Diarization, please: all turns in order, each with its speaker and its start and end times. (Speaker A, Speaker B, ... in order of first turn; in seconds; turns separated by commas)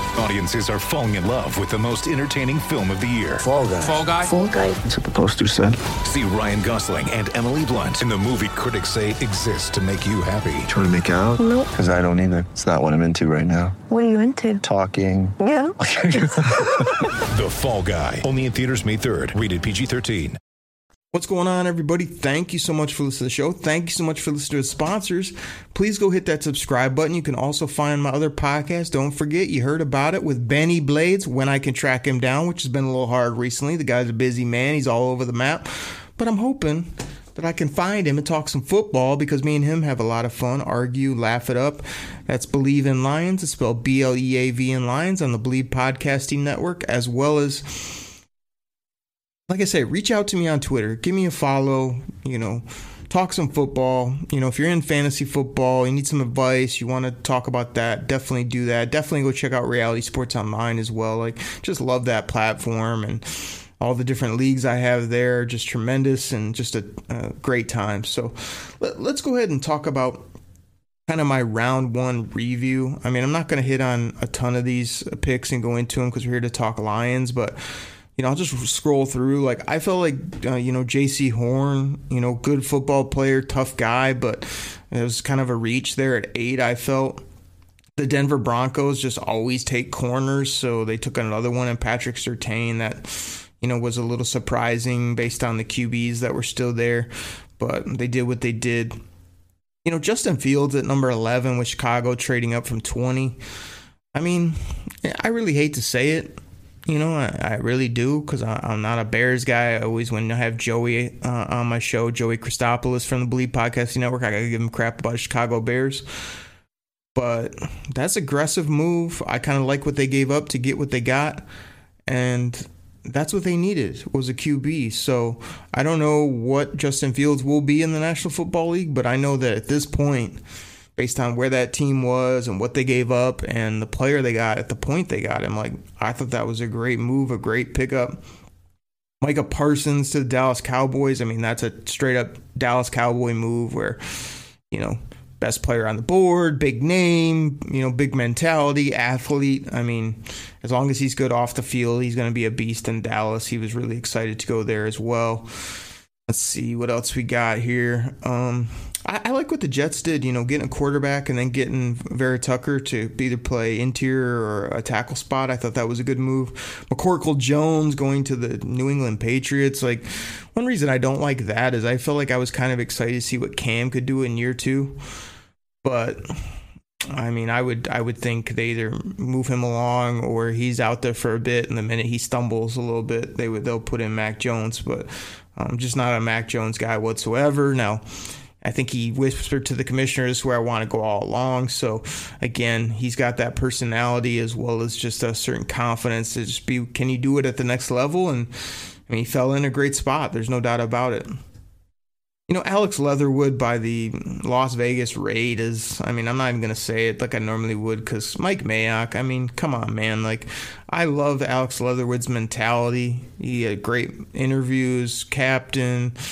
Speaker A: 0.1-4.2, Speaker B: 3.4-4.0, Speaker C: 4.3-4.8, Speaker B: 4.9-5.8, Speaker A: 6.0-10.7, Speaker B: 10.7-13.8, Speaker C: 11.4-11.7, Speaker C: 13.9-14.6, Speaker B: 14.6-16.6, Speaker C: 15.4-16.3, Speaker A: 17.3-20.4, Speaker D: 21.1-48.1, Speaker D: 49.5-70.3, Speaker D: 71.1-87.2, Speaker D: 88.0-99.0, Speaker D: 99.8-103.4, Speaker D: 104.2-116.0, Speaker D: 117.2-121.5, Speaker D: 122.1-130.4, Speaker D: 131.0-138.2, Speaker D: 139.2-175.0, Speaker D: 175.8-176.5, Speaker D: 177.1-188.0, Speaker D: 188.6-201.4, Speaker D: 202.5-216.2